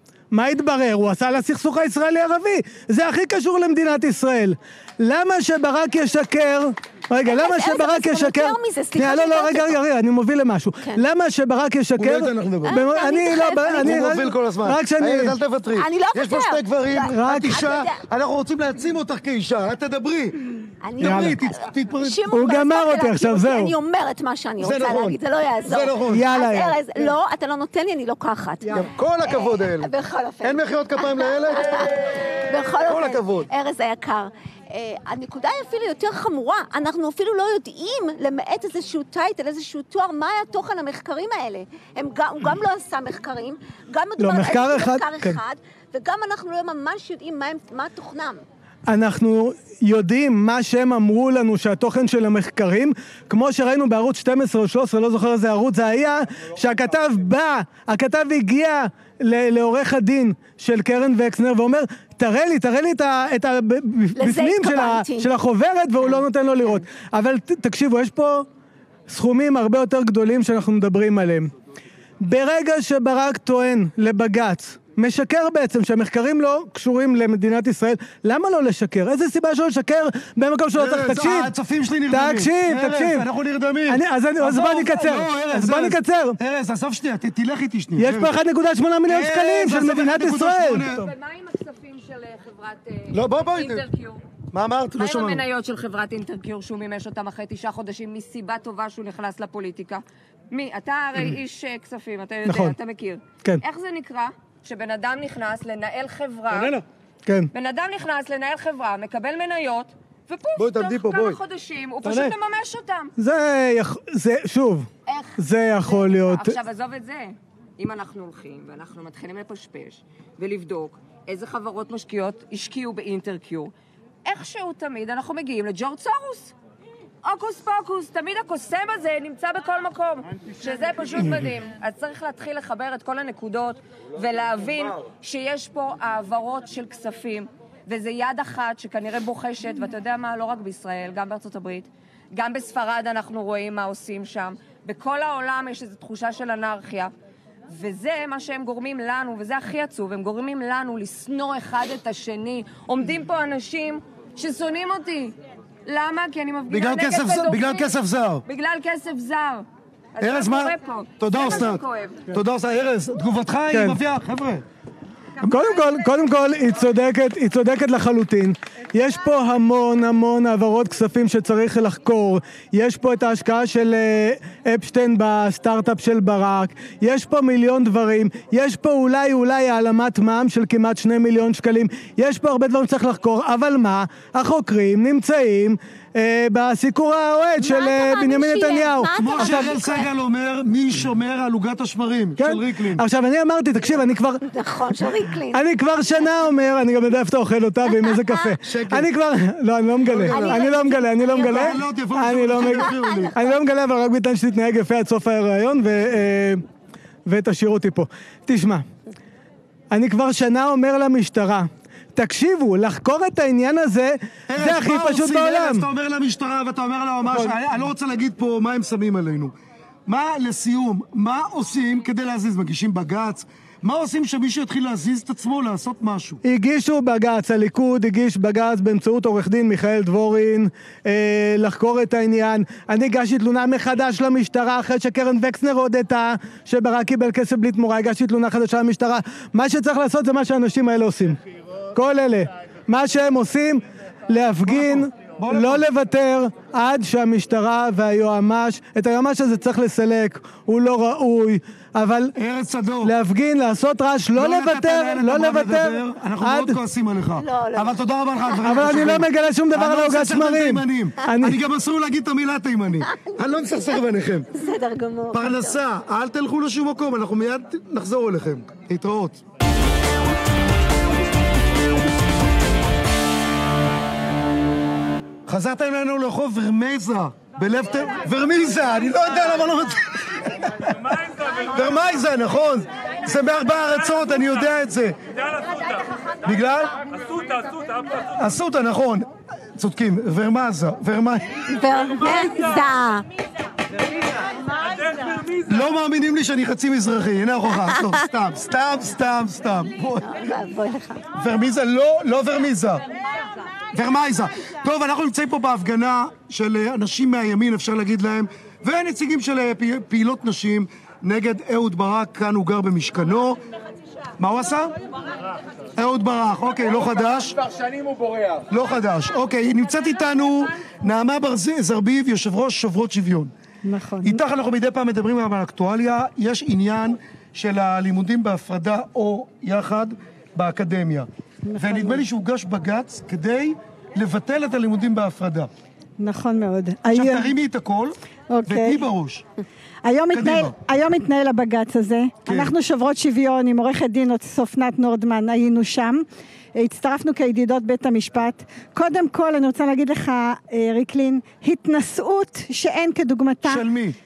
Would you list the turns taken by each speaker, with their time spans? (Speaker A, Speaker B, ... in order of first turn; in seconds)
Speaker A: 0.3-15.4, 17.1-17.6, 21.0-21.4, 22.3-23.7, 26.1-26.8, 44.2-45.4, 48.9-68.5, 69.1-71.5, 72.2-81.5, 82.1-83.2, 83.9-86.4, 88.0-90.9, 102.4-102.8, 113.2-116.6, 163.7-164.0, 165.4-189.8, 192.4-194.4, 195.5-206.6, 207.2-208.8, 209.9-215.9, 217.3-217.6, 226.4-241.4, 241.9-252.3, 253.0-256.8, 258.6-261.6
Speaker B: 7.2-9.8, 12.6-14.1, 15.8-18.0, 20.8-48.4, 64.2-65.3, 66.0-66.8, 187.6-190.1, 194.4-195.6, 197.9-198.5, 200.2-201.8, 202.6-203.3, 257.4-258.9, 263.1-264.0, 264.5-265.8, 291.7-293.2, 300.2-301.2
Speaker C: 12.0-12.8, 13.6-22.2, 24.6-26.3, 28.7-29.9, 30.4-31.9, 32.8-33.5, 80.8-88.3, 89.0-91.1, 93.1-93.8, 94.5-95.4, 106.5-106.8, 110.5-111.4, 112.0-112.3, 131.1-131.3, 156.7-158.4, 160.2-164.6, 189.2-193.0, 198.6-199.1, 200.0-200.8, 201.3-203.3, 214.5-219.5, 220.1-226.4, 244.7-245.8, 252.4-253.1, 254.3-264.5, 265.3-269.4, 275.5-285.2, 286.4-287.0, 288.3-291.4, 295.6-300.4, 301.4-303.0, 303.9-313.6, 314.4-314.9, 316.0-317.6, 318.7-323.5, 324.2-335.7, 337.1-339.4, 340.3-340.7, 342.4-342.7, 353.6-354.2
Speaker D: 90.8-94.2, 95.0-106.8, 107.5-113.1, 115.1-123.7, 124.2-126.5, 127.2-147.1, 147.7-159.6, 160.2-162.2, 165.4-166.1
Speaker E: 323.9-324.4, 331.6-332.2, 336.2-337.5, 338.5-339.1, 340.0-346.2, 346.8-353.9